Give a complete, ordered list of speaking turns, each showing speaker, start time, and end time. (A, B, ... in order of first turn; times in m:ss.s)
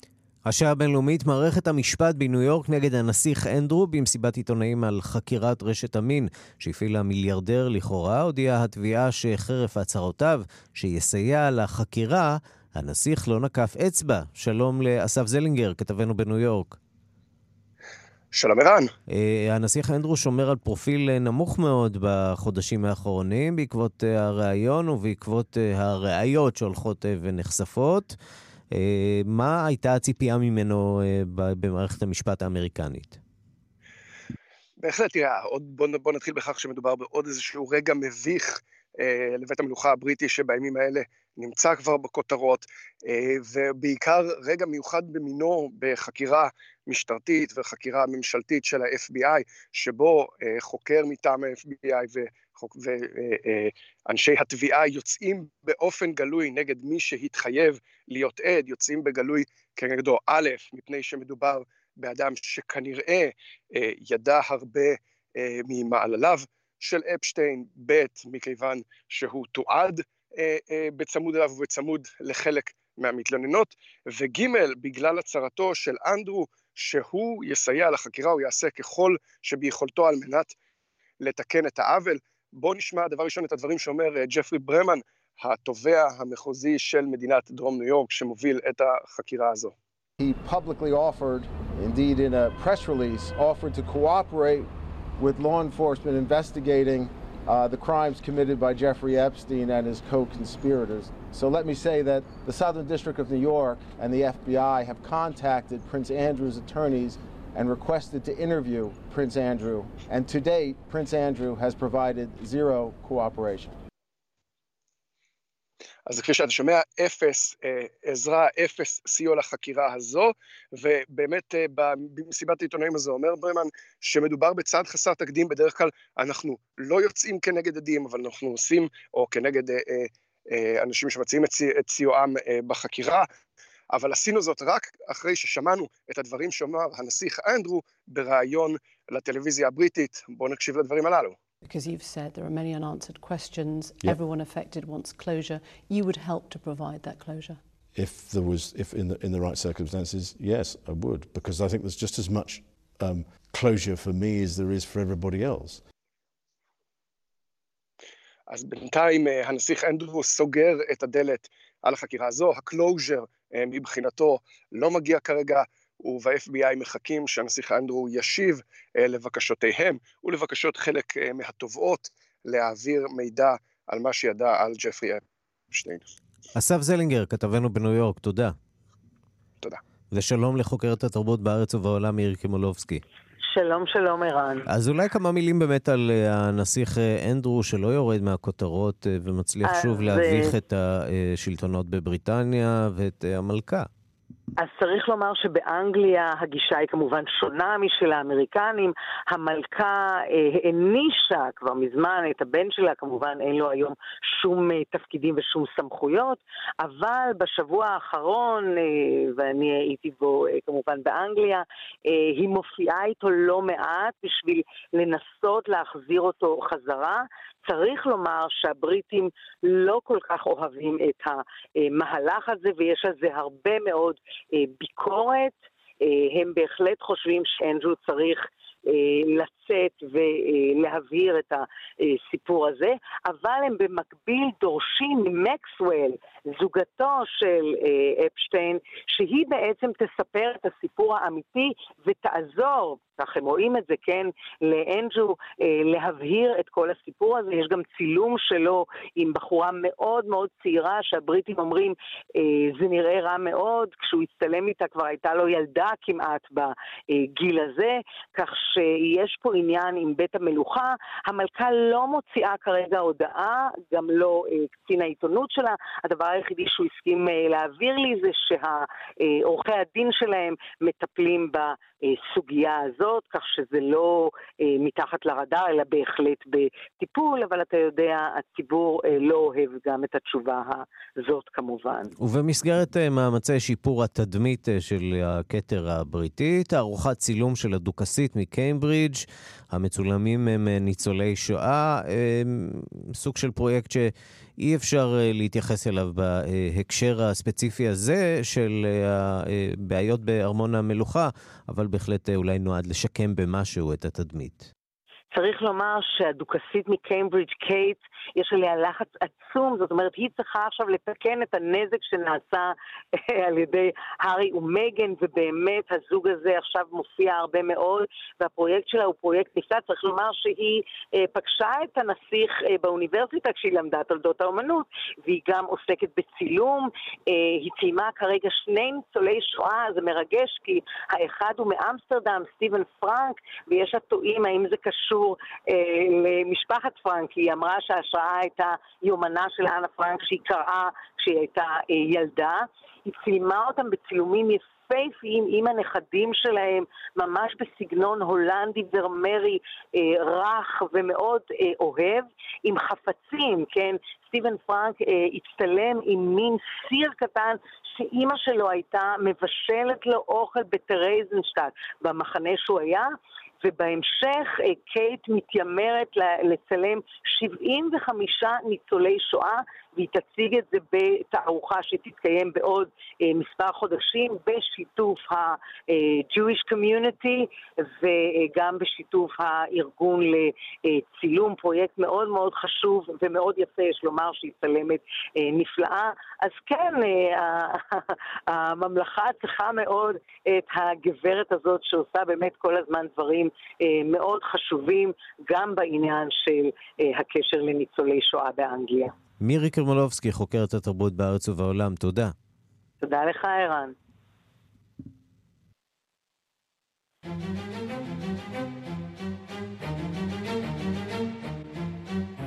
0:00.5-0:16.8 A
0:18.3-0:18.9 B
0:19.1-0:28.1 A
0:28.7-0:33.2 A
0:34.8-1:20.5 B
1:21.2-1:29.7 B
1:30.2-1:53.8 C
1:56.1-2:13.3 B
2:13.9-2:21.4 B
2:21.6-2:27.6 D
2:28.0-2:35.8 E
2:38.5-2:55.2 B
2:55.7-2:56.1 B
2:56.6-2:58.6 A
3:00.1-3:03.0 A
3:03.5-3:04.6 F
3:04.7-3:13.9 A
3:09.7-3:10.5 F
3:14.6-4:42.1 F
4:42.2-5:04.7 A
5:05.3-6:03.1 F
6:03.6-6:39.1 F
6:39.4-6:42.3 A
6:43.0-6:43.9 F